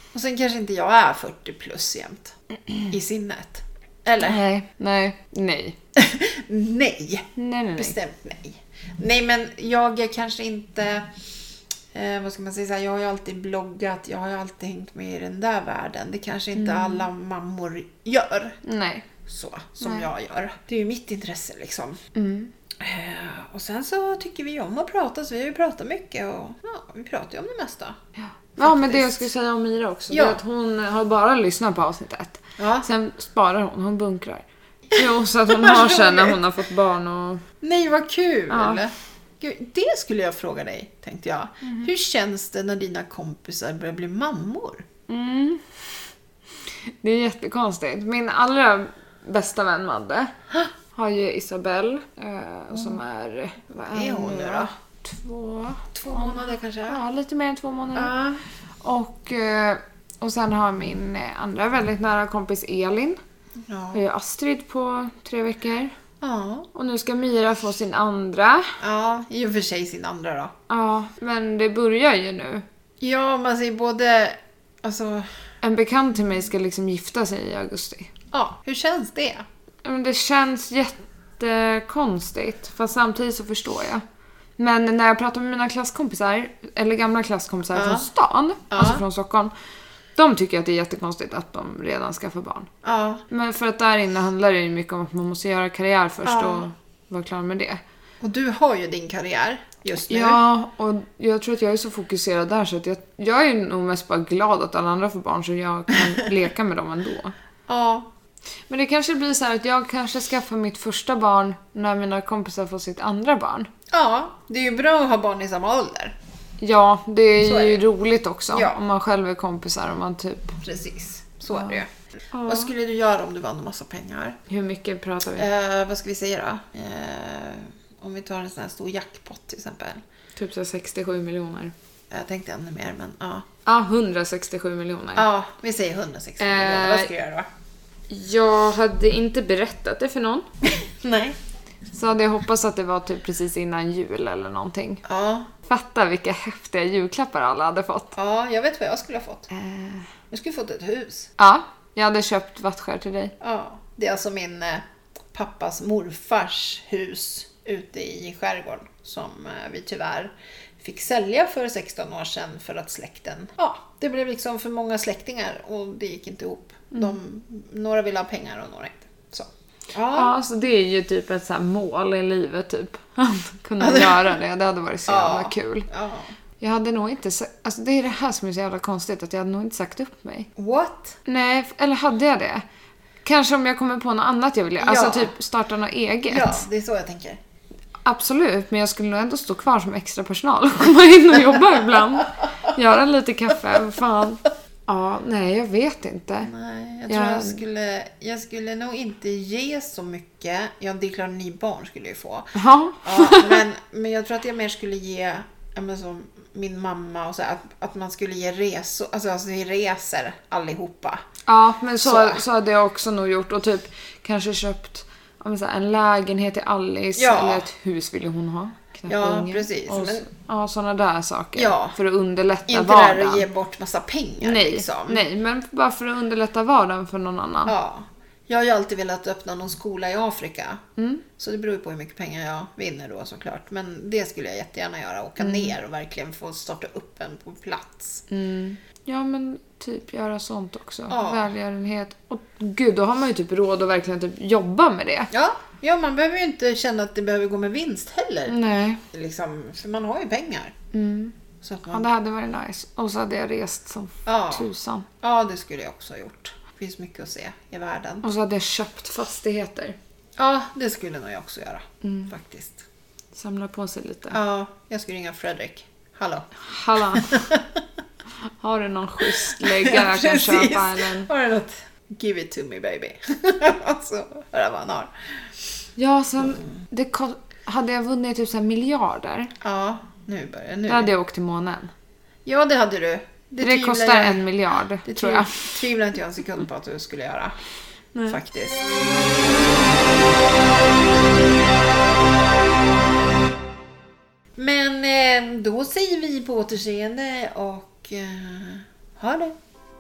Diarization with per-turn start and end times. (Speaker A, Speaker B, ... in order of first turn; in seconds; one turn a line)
Speaker A: 0.1-2.4
Speaker A: 2.9-4.4
Speaker B: 4.2-5.8
Speaker A: 6.0-11.1
Speaker B: 7.4-8.0
Speaker A: 11.9-18.6
Speaker B: 16.6-17.1
Speaker B: 18.6-19.1
Speaker A: 19.3-22.0
Speaker B: 19.8-20.1
Speaker B: 22.1-22.5
Speaker A: 22.8-28.0
Speaker B: 28.2-37.4
Speaker A: 28.6-29.2
Speaker A: 30.1-30.4
Speaker A: 32.6-32.9
Speaker A: 34.9-36.4
Speaker A: 37.6-44.9
Speaker B: 38.5-38.8
Speaker B: 41.6-41.9
Speaker B: 45.1-45.8
Speaker B: 46.9-50.3
Speaker B: 50.9-58.1
Speaker A: 53.7-54.7
Speaker A: 55.9-57.0
Speaker A: 57.9-58.4
Speaker B: 58.8-63.2
Speaker A: 63.7-64.0
Speaker B: 63.9-65.9
Speaker A: 66.2-66.7
Speaker B: 66.7-68.8
Speaker A: 68.8-70.5
Speaker B: 70.7-72.7
Speaker A: 73.0-75.3
Speaker B: 75.6-78.1
Speaker A: 78.3-79.5
Speaker B: 79.8-84.0
Speaker B: 84.6-89.5
Speaker A: 87.7-88.1
Speaker A: 88.7-89.0
Speaker B: 90.2-92.7
Speaker A: 92.8-93.2
Speaker B: 93.3-97.8
Speaker A: 96.2-96.7
Speaker A: 98.2-100.4
Speaker B: 100.1-107.3
Speaker A: 107.7-108.1
Speaker B: 108.7-113.7
Speaker A: 113.9-116.2
Speaker B: 116.6-120.6
Speaker A: 117.4-117.8
Speaker A: 118.5-118.8
Speaker A: 120.6-121.9
Speaker B: 121.5-121.8
Speaker B: 122.3-122.7
Speaker A: 122.5-124.4
Speaker B: 124.5-125.5
Speaker A: 125.4-130.0
Speaker B: 130.4-131.7
Speaker A: 132.1-133.5
Speaker B: 133.7-135.3
Speaker A: 135.2-137.5
Speaker B: 136.4-137.1
Speaker B: 138.1-140.5
Speaker A: 140.7-141.4
Speaker B: 141.9-145.0
Speaker A: 145.1-145.5
Speaker B: 145.7-148.2
Speaker A: 148.2-149.5
Speaker B: 149.5-150.1
Speaker A: 150.3-151.3
Speaker B: 151.4-153.3
Speaker A: 153.4-170.3
Speaker B: 170.1-175.9
Speaker A: 173.8-174.3
Speaker A: 175.1-176.3
Speaker B: 176.6-180.5
Speaker A: 180.6-181.2
Speaker B: 181.3-182.6
Speaker B: 183.2-186.7
Speaker A: 184.8-185.3
Speaker A: 186.3-187.4
Speaker B: 188.0-196.5
Speaker A: 196.4-211.2
Speaker B: 197.1-197.6
Speaker B: 202.6-203.6
Speaker B: 211.5-223.5
Speaker A: 212.0-212.4
Speaker A: 217.2-217.7
Speaker A: 219.1-220.3
Speaker A: 221.6-222.0
Speaker A: 222.7-225.2
Speaker B: 224.4-227.7
Speaker A: 227.7-230.8
Speaker B: 231.0-231.2
Speaker A: 231.3-238.2
Speaker B: 235.4-235.8
Speaker B: 238.3-245.3
Speaker A: 241.1-241.5
Speaker A: 245.3-248.6
Speaker B: 248.5-249.0
Speaker A: 249.1-250.8
Speaker B: 250.9-251.3
Speaker A: 251.6-252.1
Speaker B: 251.9-255.1
Speaker A: 254.3-254.7
Speaker A: 255.2-258.3
Speaker B: 258.2-260.0
Speaker A: 260.4-262.9
Speaker B: 262.0-262.3
Speaker B: 263.3-264.4
Speaker A: 264.3-267.8
Speaker B: 266.6-267.5
Speaker B: 268.6-271.3
Speaker A: 269.3-275.1
Speaker B: 276.0-279.5
Speaker A: 279.6-281.1
Speaker B: 280.9-281.9
Speaker A: 282.5-284.5
Speaker B: 283.6-285.8
Speaker A: 285.0-287.6
Speaker B: 288.1-288.4
Speaker A: 288.3-288.8
Speaker A: 294.6-299.6